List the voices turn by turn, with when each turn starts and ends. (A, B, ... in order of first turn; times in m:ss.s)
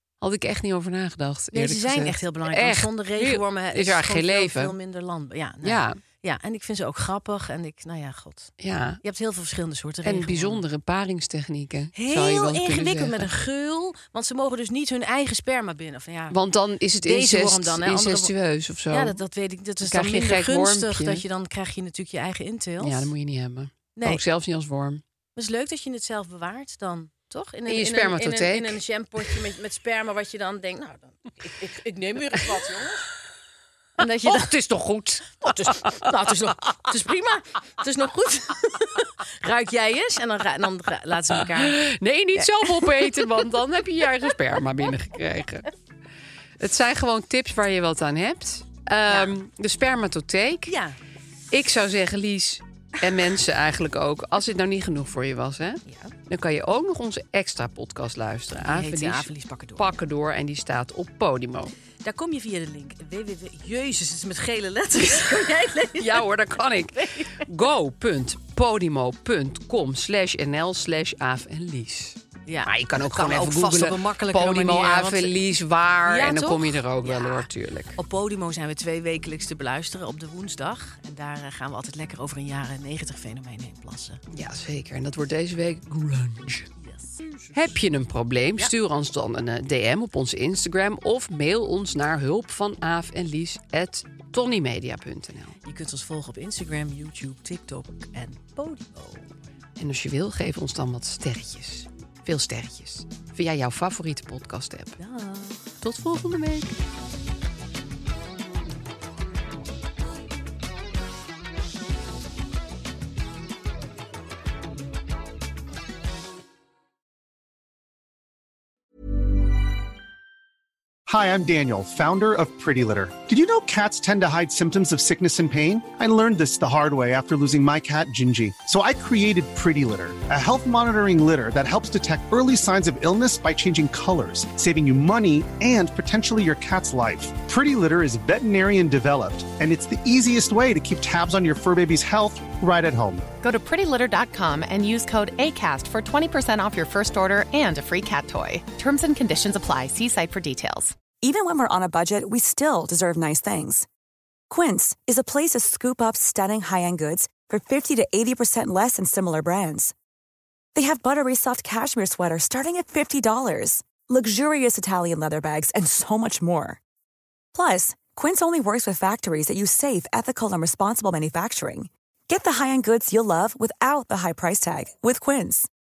0:00.2-0:04.8 A
0:01.5-0:10.6 B
0:05.6-0:06.0 A
0:08.6-0:09.0 A
0:10.0-0:13.3 A
0:11.9-0:16.4 B
0:16.3-0:19.2 A
0:17.0-0:18.3 B
0:18.9-0:23.1 B
0:19.8-0:21.2 A
0:22.8-0:25.0 A
0:24.0-0:24.2 B
0:25.4-0:33.1 B
0:27.7-0:28.8 A
0:34.0-0:34.5 B
0:34.2-0:36.4 A
0:35.3-0:41.8 B
0:41.4-0:45.7 A
0:42.4-0:43.3 B
0:46.6-0:50.7 A
0:50.7-0:51.0 B
0:51.5-1:01.7 A
0:55.9-0:56.1 B
0:58.5-0:59.9 B
1:02.0-1:07.4 B
1:05.2-1:18.0 A
1:12.5-1:15.4 B
1:16.0-1:24.2 B
1:24.3-1:26.7 A
1:26.8-1:27.8 B
1:27.5-1:35.6 A
1:35.6-1:39.3 B
1:39.8-1:45.0 A
1:45.0-1:45.8 B
1:45.8-1:46.8 A
2:01.1-2:23.3 C
2:23.4-2:31.0 D
2:31.1-2:33.9 E
2:34.5-2:39.9 E
2:40.8-2:46.8 E
2:47.5-2:55.7 E